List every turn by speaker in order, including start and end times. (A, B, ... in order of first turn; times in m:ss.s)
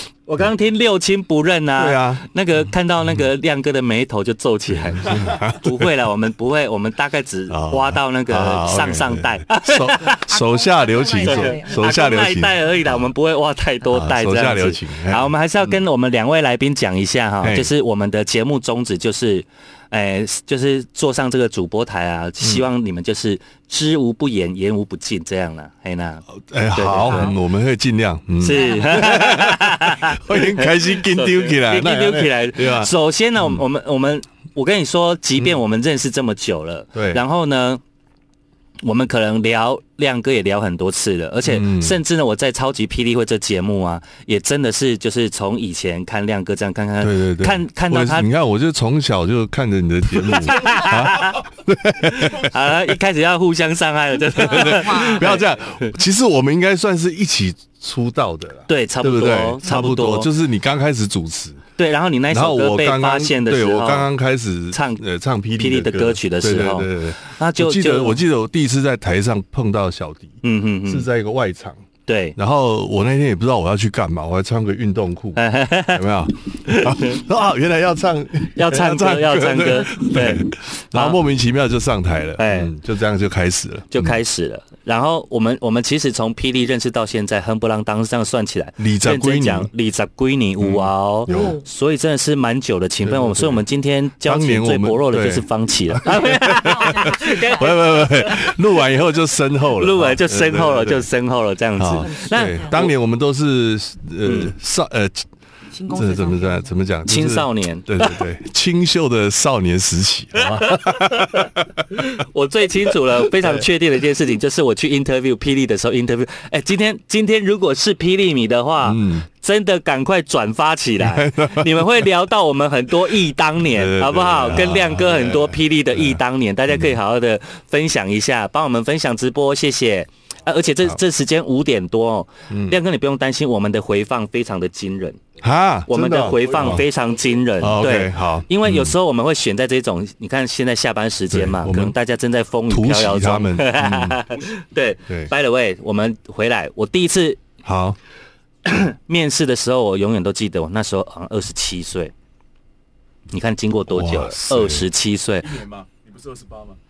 0:00.3-0:10.2 A
0:01.8-0:02.2 B
0:04.7-0:05.9 B
0:07.5-0:13.1 B
0:10.0-0:11.9 C
0:11.2-0:27.4 A
0:13.9-0:15.8 B
0:17.4-0:17.7 B
0:26.4-0:32.9 B
0:27.0-0:27.4 C
0:28.4-0:37.8 A
0:28.5-0:29.3 C
0:37.0-0:37.2 B
0:38.8-0:48.3 A
0:41.4-0:42.0 B
0:47.0-0:52.9 B
0:50.2-0:51.4 A
0:52.1-0:55.9 A
0:54.4-1:01.6 B
0:54.4-0:55.4 C
0:58.7-1:00.3 A
1:01.8-1:04.1 A
1:02.3-1:11.8 B
1:04.7-1:05.0 A
1:05.6-1:08.2 A
1:10.4-1:11.1 A
1:12.1-1:12.4 A
1:12.4-1:24.1 B
1:15.4-1:16.1 A
1:16.6-1:17.2 A
1:18.6-1:21.2 A
1:22.4-1:22.7 A
1:23.9-1:38.6 A
1:28.8-1:29.7 B
1:30.6-1:31.6 B
1:31.3-1:31.6 C
1:33.0-1:33.6 B
1:34.2-1:41.1 B
1:36.1-1:38.1 C
1:39.8-1:42.9 A
1:41.8-1:45.3 B
1:42.0-1:42.8 C
1:44.2-1:44.5 A
1:45.7-1:46.7 C
1:45.9-1:51.8 B
1:47.0-1:48.1 A
1:50.4-2:15.2 A
1:58.8-1:59.3 B
2:01.0-2:02.0 B
2:03.7-2:07.0 B
2:12.5-2:12.8 B
2:15.4-2:16.9 B
2:15.9-2:27.4 A
2:16.3-2:17.4 D
2:17.6-2:19.0 B
2:21.3-2:22.0 B
2:22.7-2:24.2 B
2:24.2-2:24.6 D
2:27.6-2:28.0 B
2:28.7-2:32.1 A
2:33.3-2:35.5 A
2:33.9-2:34.9 B
2:35.4-2:36.8 D